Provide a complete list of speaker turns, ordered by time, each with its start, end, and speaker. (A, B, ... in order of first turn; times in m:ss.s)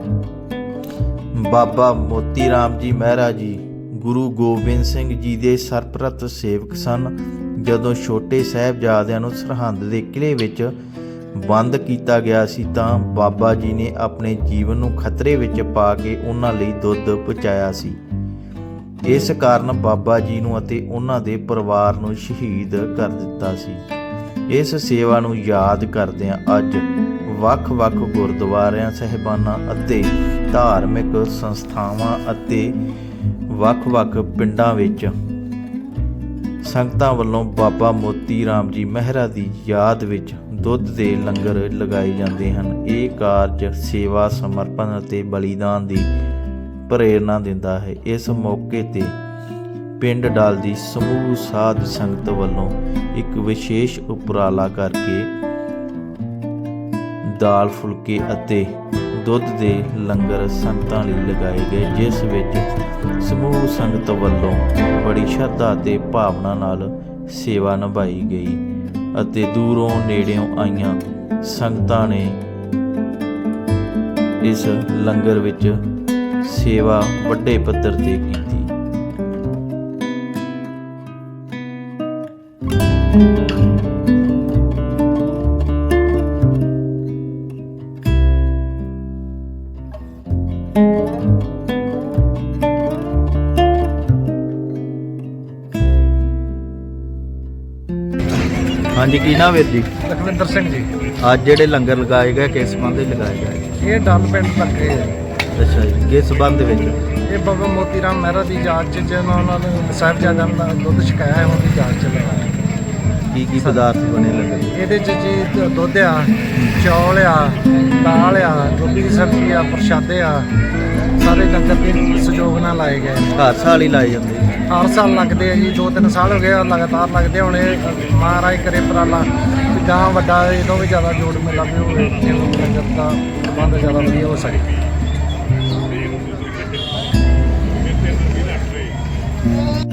0:01.3-0:10.8 A
0:11.3-0:18.0 A
0:19.0-0:23.8 A
0:24.5-0:32.8 A
0:33.5-0:35.1 A
0:36.6-0:46.1 A
0:46.9-0:49.2 A
0:50.0-0:55.3 A
0:57.2-1:02.7 A
1:03.2-1:08.6 A
1:09.2-1:12.4 A
1:14.4-1:15.8 A
1:16.4-1:18.7 A
1:38.9-1:39.9 A
1:40.0-1:40.9 B
1:41.2-1:43.7 A
1:43.8-1:45.2 B
1:45.6-1:47.0 A
1:47.3-1:52.6 B
1:53.3-1:54.8 A
1:54.7-2:00.5 B
1:56.6-1:56.8 A
2:01.2-2:03.4 B
2:03.4-2:04.6 A
2:04.7-2:14.7 B